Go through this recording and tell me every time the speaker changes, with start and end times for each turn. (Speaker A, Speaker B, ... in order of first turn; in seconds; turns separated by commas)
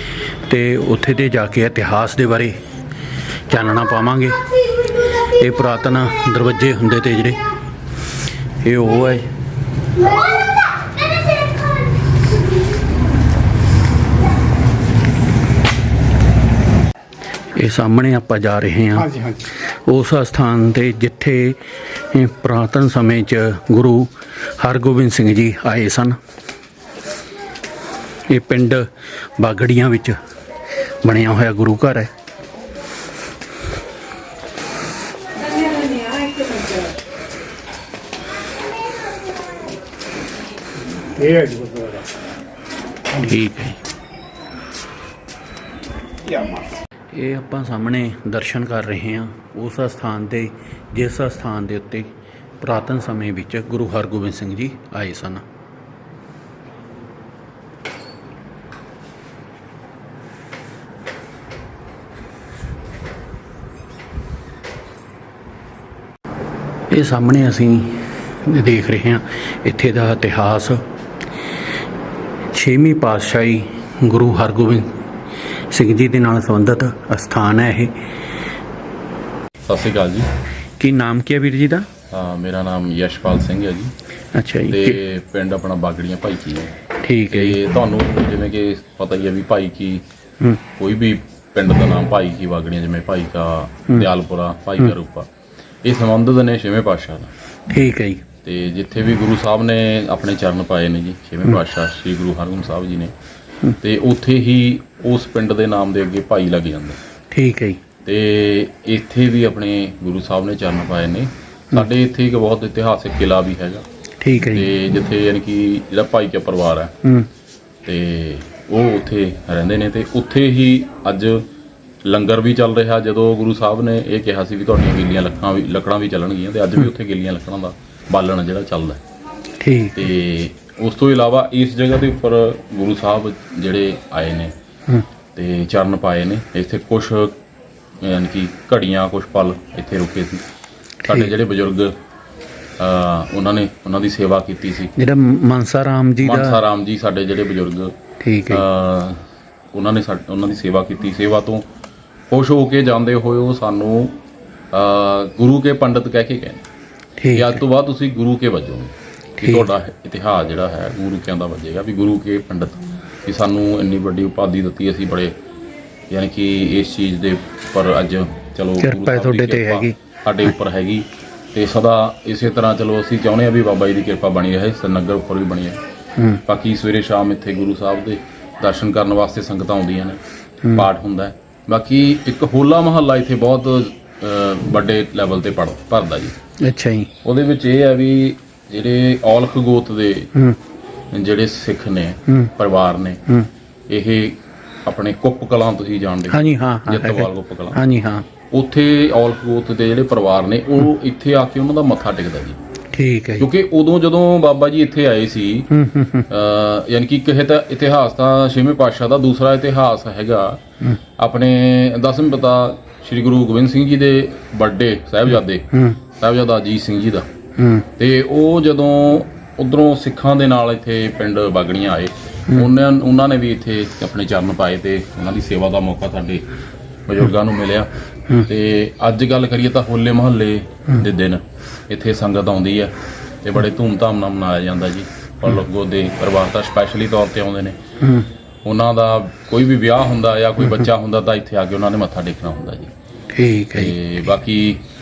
Speaker A: 0.5-2.6, Speaker A: 3.5-7.4, Speaker A: 8.6-9.3, Speaker A: 17.6-26.2, Speaker B: 19.0-19.4, Speaker A: 28.3-28.9, Speaker A: 29.4-30.2, Speaker A: 31.0-32.1, Speaker B: 35.7-36.8, Speaker B: 41.0-42.1, Speaker A: 43.1-43.8, Speaker B: 46.2-46.7, Speaker A: 47.1-55.5, Speaker A: 66.9-70.8, Speaker A: 72.5-74.9, Speaker A: 75.7-77.9, Speaker C: 79.7-80.3, Speaker A: 80.8-81.9, Speaker C: 82.1-83.9, Speaker A: 84.3-85.0, Speaker C: 84.7-86.8, Speaker A: 87.0-87.6, Speaker C: 87.3-90.0, Speaker C: 90.8-95.3, Speaker C: 95.8-97.3, Speaker A: 97.7-98.2, Speaker C: 98.4-103.1, Speaker C: 103.8-107.0, Speaker A: 107.3-107.8, Speaker C: 108.0-113.8, Speaker A: 114.2-114.7, Speaker C: 114.5-116.9, Speaker C: 117.9-121.5, Speaker C: 122.1-129.0, Speaker A: 129.6-130.1, Speaker C: 130.0-134.5, Speaker C: 135.3-137.4, Speaker C: 138.0-140.4, Speaker A: 141.0-141.3, Speaker C: 141.1-141.9, Speaker C: 142.8-144.9, Speaker A: 145.0-146.6, Speaker C: 146.2-147.9, Speaker A: 148.2-148.7, Speaker C: 148.5-149.2, Speaker C: 149.7-151.6, Speaker C: 152.3-154.2, Speaker C: 154.7-156.6, Speaker A: 157.2-157.6, Speaker C: 157.3-165.4, Speaker C: 166.1-175.8, Speaker A: 168.8-170.0, Speaker C: 176.5-180.2, Speaker C: 180.7-186.4, Speaker A: 186.6-187.1, Speaker C: 187.2-190.3, Speaker C: 191.1-193.2, Speaker C: 193.9-197.8, Speaker A: 196.3-198.3, Speaker C: 198.5-202.6, Speaker A: 202.9-203.5, Speaker C: 203.4-205.7, Speaker A: 205.7-206.3, Speaker C: 206.3-210.6, Speaker C: 211.2-217.3, Speaker A: 215.7-216.0, Speaker A: 217.6-217.9, Speaker C: 218.0-226.4, Speaker C: 227.1-237.8, Speaker A: 238.0-238.3, Speaker C: 238.7-242.9, Speaker A: 243.3-244.0, Speaker C: 243.8-244.8